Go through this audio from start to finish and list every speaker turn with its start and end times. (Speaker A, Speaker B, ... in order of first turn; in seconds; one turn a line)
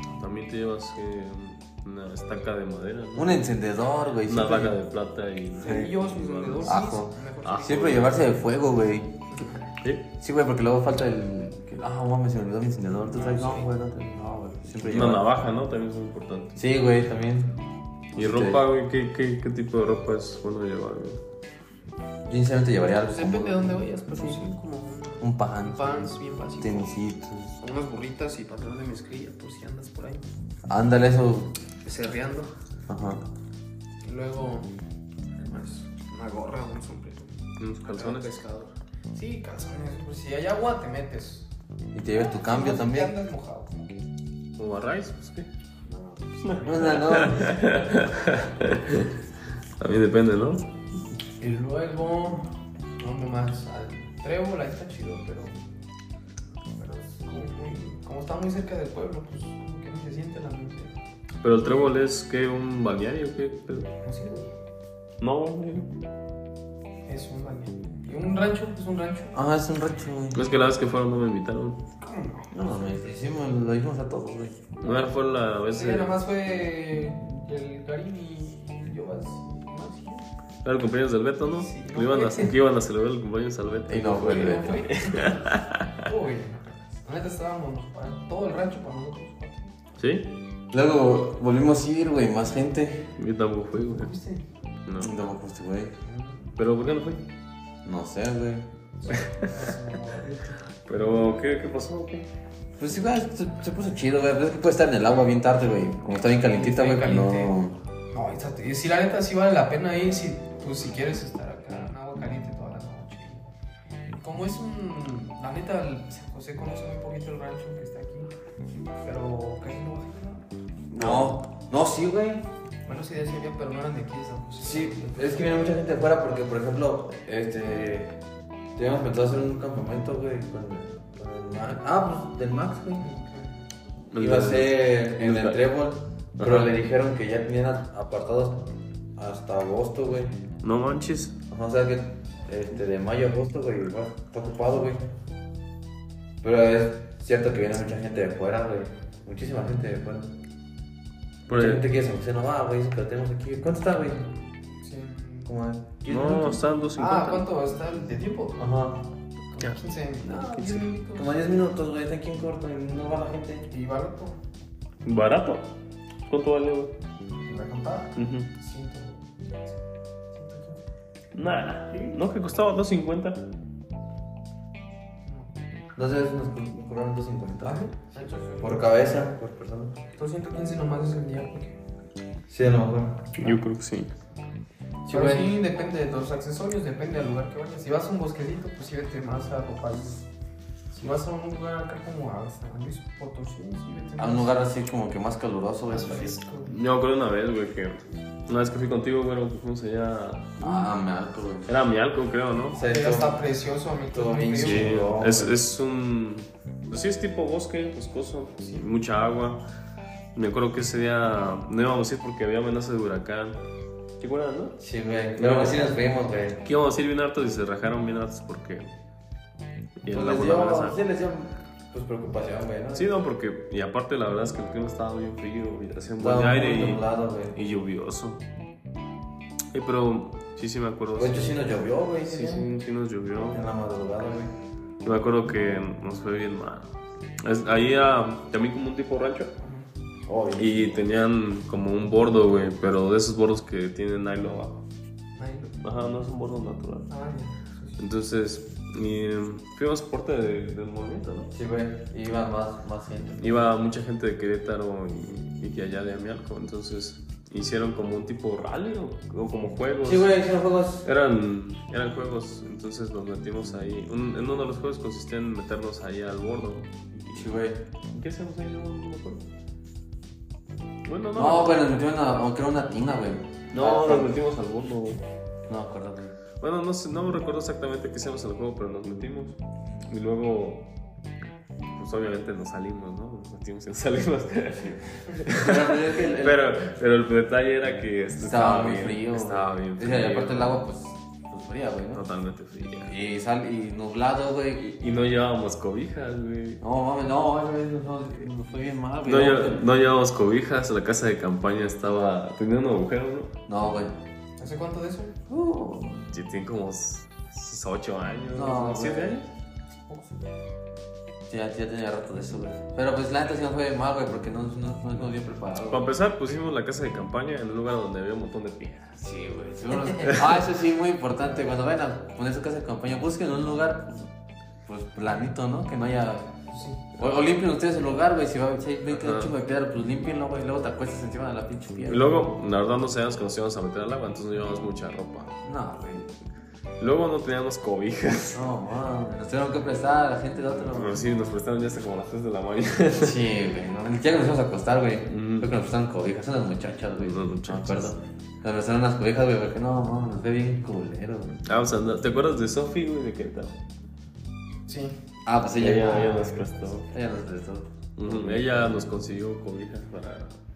Speaker A: 0.1-3.4
Speaker B: 3.1-4.8
Speaker A: 4.2-8.2
Speaker C: 5.6-8.0
Speaker B: 5.6-5.9
Speaker B: 6.6-9.2
Speaker A: 9.8-10.1
Speaker B: 10.2-15.3
Speaker C: 13.0-13.7
Speaker A: 14.8-16.6
Speaker B: 16.6-17.6
Speaker A: 18.1-21.2
Speaker B: 18.1-18.6
Speaker B: 22.2-24.4
Speaker C: 23.0-26.9
Speaker B: 25.2-27.6
Speaker C: 27.6-30.3
Speaker B: 30.7-31.5
Speaker C: 31.8-32.5
Speaker B: 32.9-33.2
Speaker C: 34.0-34.7
Speaker C: 35.4-41.5
Speaker A: 37.6-38.4
Speaker B: 41.9-43.1
Speaker C: 42.1-44.0
Speaker A: 44.6-45.5
Speaker C: 45.9-48.0
Speaker A: 46.4-49.1
Speaker B: 46.6-47.6
Speaker A: 49.8-50.6
Speaker C: 51.4-55.6
Speaker C: 56.7-60.9
Speaker A: 61.4-63.9
Speaker C: 64.0-64.5
Speaker A: 65.2-65.9
Speaker C: 67.1-69.3
Speaker B: 69.3-70.5
Speaker A: 70.3-71.8
Speaker C: 72.0-72.5
Speaker B: 72.5-74.6
Speaker A: 74.8-76.1
Speaker C: 75.7-80.2
Speaker A: 80.6-86.0
Speaker C: 81.5-82.5
Speaker B: 83.9-84.8
Speaker C: 84.1-85.5
Speaker C: 86.0-89.7
Speaker A: 90.0-90.3
Speaker B: 90.7-93.1
Speaker A: 93.2-94.1
Speaker C: 93.9-94.5
Speaker A: 94.8-95.2
Speaker B: 95.0-95.9
Speaker C: 96.0-96.5
Speaker A: 96.6-97.3
Speaker B: 97.8-98.7
Speaker C: 99.0-100.6
Speaker A: 99.1-99.5
Speaker A: 100.9-102.3
Speaker B: 102.8-107.8
Speaker C: 106.5-107.5
Speaker C: 108.1-113.5
Speaker C: 114.2-118.3
Speaker C: 119.0-120.4
Speaker A: 120.9-121.3
Speaker B: 120.9-122.5
Speaker C: 122.8-125.6
Speaker B: 124.6-128.2
Speaker B: 128.8-133.1
Speaker C: 133.0-133.5
Speaker A: 134.1-135.6
Speaker B: 134.1-140.4
Speaker A: 136.4-136.7
Speaker A: 140.6-141.3
Speaker B: 141.5-145.1
Speaker B: 146.4-150.3
Speaker A: 151.5-151.8
Speaker B: 151.5-154.3
Speaker C: 154.8-155.5
Speaker B: 155.4-156.7
Speaker A: 156.1-157.5
Speaker C: 156.9-158.6
Speaker B: 158.6-159.1
Speaker C: 159.5-161.4
Speaker A: 159.6-160.9
Speaker B: 161.1-163.7
Speaker C: 163.7-164.4
Speaker A: 165.0-165.7
Speaker A: 166.3-166.9
Speaker C: 167.4-169.8
Speaker A: 168.2-168.5
Speaker C: 170.3-170.8
Speaker A: 171.3-173.5
Speaker B: 175.9-179.9
Speaker C: 177.6-178.9
Speaker C: 180.1-181.8
Speaker B: 182.5-183.5
Speaker A: 183.3-184.1
Speaker B: 185.1-185.5
Speaker C: 185.1-190.3
Speaker C: 190.9-194.6
Speaker B: 194.2-196.4
Speaker C: 195.9-196.7
Speaker A: 196.6-200.8
Speaker B: 200.6-201.7
Speaker A: 201.7-202.8
Speaker B: 202.7-203.4
Speaker C: 202.7-205.0
Speaker B: 204.1-205.6
Speaker A: 204.6-209.6
Speaker A: 210.3-213.6
Speaker A: 214.2-214.8
Speaker B: 214.8-216.6
Speaker A: 215.3-215.9
Speaker A: 216.6-218.9
Speaker A: 220.0-221.0
Speaker B: 220.1-223.1
Speaker A: 222.9-228.4
Speaker B: 226.2-227.6
Speaker A: 229.7-233.6
Speaker B: 231.2-232.7
Speaker B: 233.5-234.5
Speaker A: 235.0-239.5
Speaker C: 239.6-239.9
Speaker B: 240.2-241.0
Speaker A: 240.6-244.8
Speaker C: 245.3-245.7
Speaker A: 245.8-247.1
Speaker C: 247.1-248.0
Speaker A: 248.0-251.5
Speaker B: 251.5-253.7
Speaker A: 253.4-260.3
Speaker B: 260.0-261.1
Speaker A: 261.0-267.6
Speaker B: 267.3-267.8
Speaker A: 268.1-269.4
Speaker A: 271.0-271.8
Speaker B: 271.3-274.3
Speaker A: 273.7-275.2
Speaker B: 275.7-276.4
Speaker A: 276.6-280.9
Speaker A: 281.9-290.8
Speaker B: 285.4-286.7
Speaker B: 288.4-292.2
Speaker A: 292.1-293.1
Speaker B: 293.0-294.9
Speaker A: 294.8-296.8
Speaker B: 296.8-299.9
Speaker A: 299.2-303.5
Speaker B: 303.7-304.1
Speaker C: 304.6-305.4
Speaker B: 305.5-306.3
Speaker A: 306.3-309.5
Speaker B: 308.5-309.4
Speaker C: 310.1-310.4
Speaker B: 311.5-316.1
Speaker A: 315.9-319.1
Speaker B: 319.1-324.3
Speaker A: 320.2-320.6
Speaker B: 324.9-332.5
Speaker C: 326.7-327.0
Speaker A: 329.1-329.5
Speaker A: 332.1-335.5
Speaker B: 335.6-336.3
Speaker A: 337.0-338.6
Speaker B: 338.5-341.2
Speaker A: 340.8-343.4
Speaker B: 343.1-351.6
Speaker A: 345.3-345.7
Speaker A: 347.2-348.1
Speaker A: 351.6-353.8
Speaker C: 354.9-355.2
Speaker B: 355.4-359.1
Speaker A: 355.8-357.1
Speaker C: 356.0-356.6
Speaker A: 358.2-360.5